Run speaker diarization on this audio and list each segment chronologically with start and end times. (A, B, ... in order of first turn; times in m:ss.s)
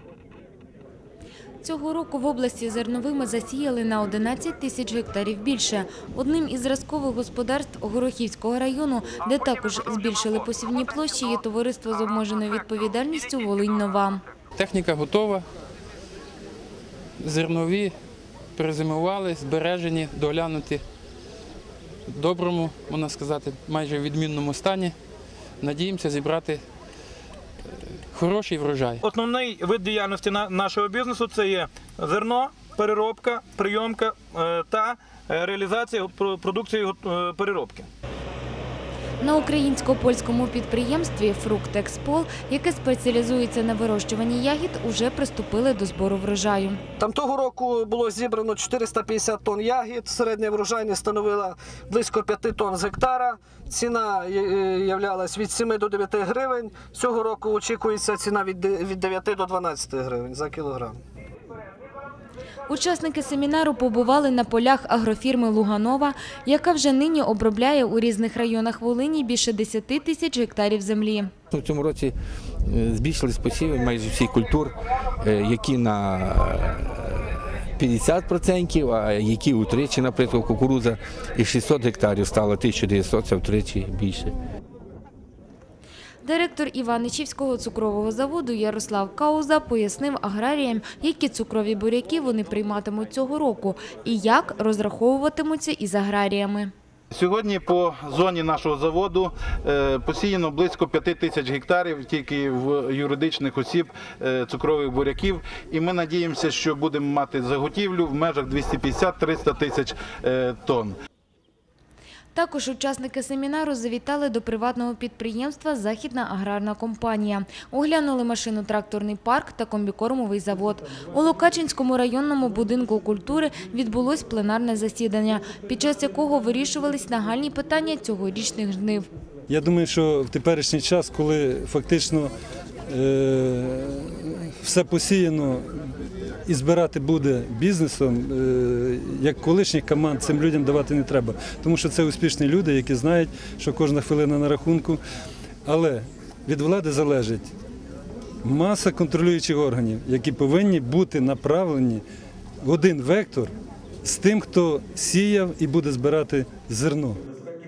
0:01.6-0:14.2 A
0:14.6-0:15.5 B
0:17.2-0:17.9 B
0:18.6-0:20.8 B
0:22.1-0:25.0 B
0:25.6-0:26.6 B
0:28.1-0:29.0 B
0:29.0-0:37.9 C
0:39.2-0:46.8 A
0:47.0-1:01.0 D
1:02.7-1:11.3 A
1:11.5-1:24.3 E
1:26.2-1:36.7 A
1:37.1-1:51.0 F
1:52.3-2:09.1 A
2:09.5-2:12.3 G
2:12.9-2:15.7 G
2:16.5-2:25.0 G
2:25.7-2:27.5 G
2:28.4-2:32.0 G
2:32.6-2:33.5 G
2:34.0-2:37.2 G